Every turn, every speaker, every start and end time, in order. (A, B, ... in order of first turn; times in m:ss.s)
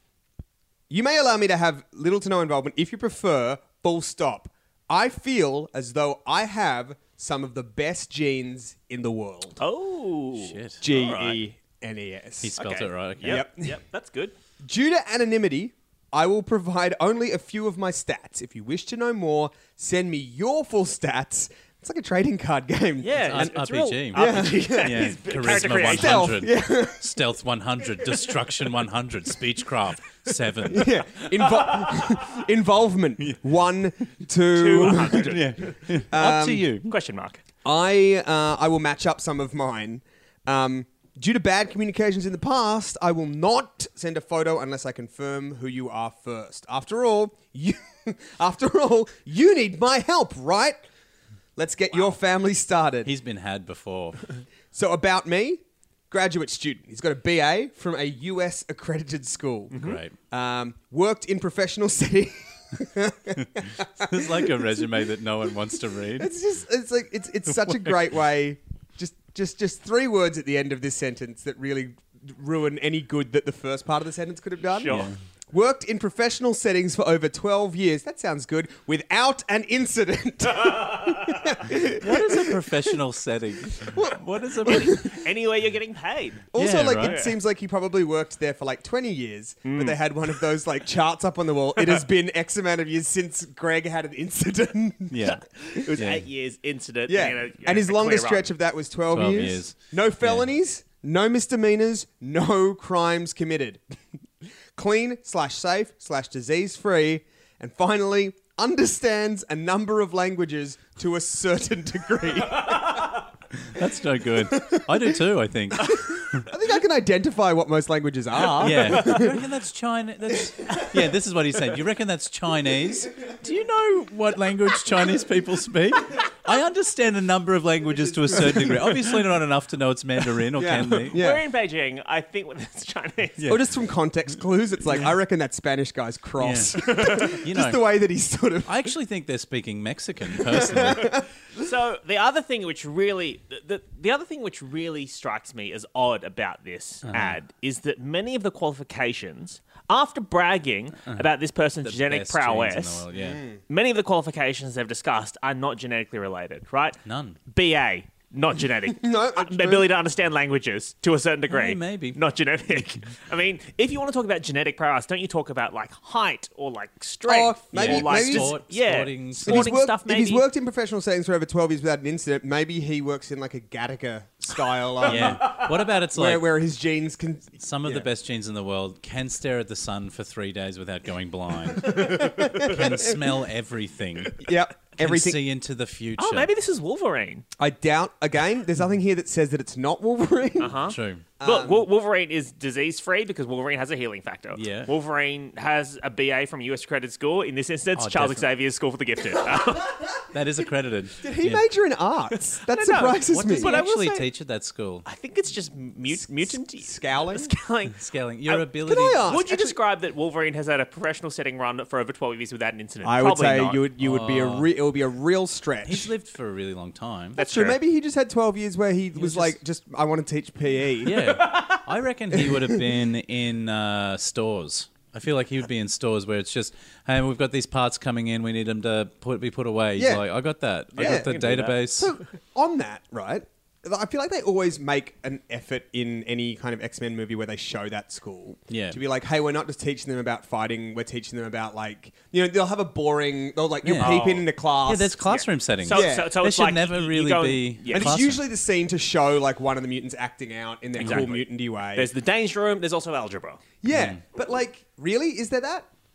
0:00.9-0:09.6 A
0:09.6-0:11.4 B
0:10.4-0:10.8 C
0:10.8-0:12.6 A
0:12.4-0:13.5 C
0:12.6-0:14.3 B
0:13.2-0:13.8 A
0:14.6-0:23.6 A
0:23.0-0:26.3 B
0:23.2-0:31.2 C
0:24.1-0:27.1 A
0:30.6-0:36.7 A
0:31.6-0:32.0 B
0:34.5-0:35.7 B
0:34.7-0:36.9 C
0:36.8-0:37.4 B
0:37.6-0:50.8 A
0:51.6-0:53.1 A
0:53.0-0:54.3 C
0:54.7-1:04.9 A
0:59.7-1:00.0 B
0:59.7-1:00.1 C
1:03.6-1:06.3 C
1:06.2-1:22.8 A
1:07.6-1:07.9 C
1:14.7-1:15.1 B
1:14.9-1:15.1 C
1:21.8-1:25.1 C
1:23.7-1:25.2 A
1:24.7-1:27.3 B
1:26.5-1:35.3 A
1:26.5-1:27.2 C
1:29.6-1:30.0 B
1:35.1-1:35.4 C
1:35.6-1:38.5 B
1:35.9-1:36.2 C
1:37.1-1:43.9 A
1:39.1-1:40.5 C
1:44.7-1:53.2 A
1:53.6-1:56.5 C
1:54.5-1:55.2 A
1:55.8-1:59.4 A
1:58.6-2:11.2 C
1:59.0-1:59.2 B
2:08.3-2:08.9 A
2:10.5-2:11.4 A
2:11.0-2:13.5 B
2:13.4-2:18.9 A
2:16.4-2:17.8 C
2:16.8-2:17.4 B
2:18.6-2:21.1 C
2:20.4-2:21.2 A
2:21.6-2:33.0 B
2:27.1-2:27.4 C
2:31.8-2:33.4 C
2:33.1-2:33.6 A
2:33.7-2:50.4 B
2:37.0-2:37.4 C
2:38.9-2:39.9 A
2:41.5-2:42.2 C
2:47.2-2:48.6 A
2:47.7-2:49.8 C
2:49.4-2:58.1 A
2:55.0-2:56.5 C
2:55.2-2:55.7 B
2:57.6-3:06.5 C
3:01.8-3:03.2 A
3:04.4-3:05.4 A
3:06.2-3:07.4 B
3:07.6-3:10.8 A
3:10.6-3:20.1 B
3:10.9-3:11.2 C
3:11.4-3:11.8 A
3:14.5-3:14.9 C
3:18.0-3:18.5 C
3:20.3-3:21.6 C
3:21.2-3:23.8 A
3:22.6-3:24.3 B
3:23.3-3:25.0 C
3:25.0-3:33.8 B
3:26.1-3:27.5 A
3:27.9-3:29.4 C
3:28.8-3:29.8 A
3:33.0-3:36.1 A
3:34.0-3:34.7 C
3:35.8-3:37.4 C
3:37.4-3:37.8 B
3:37.4-3:41.3 A
3:39.2-3:39.6 C
3:41.0-3:52.1 C
3:41.3-3:41.8 B
3:42.3-3:42.8 A
3:50.0-3:50.2 A
3:50.9-3:51.8 B
3:51.0-4:05.1 A
3:58.7-3:59.0 C
4:03.8-4:08.4 C
4:04.0-4:04.4 B
4:05.2-4:08.2 B
4:05.9-4:06.3 A
4:07.9-4:12.1 A
4:11.0-4:13.6 B
4:11.0-4:11.3 C
4:13.8-4:15.9 A
4:13.9-4:14.2 C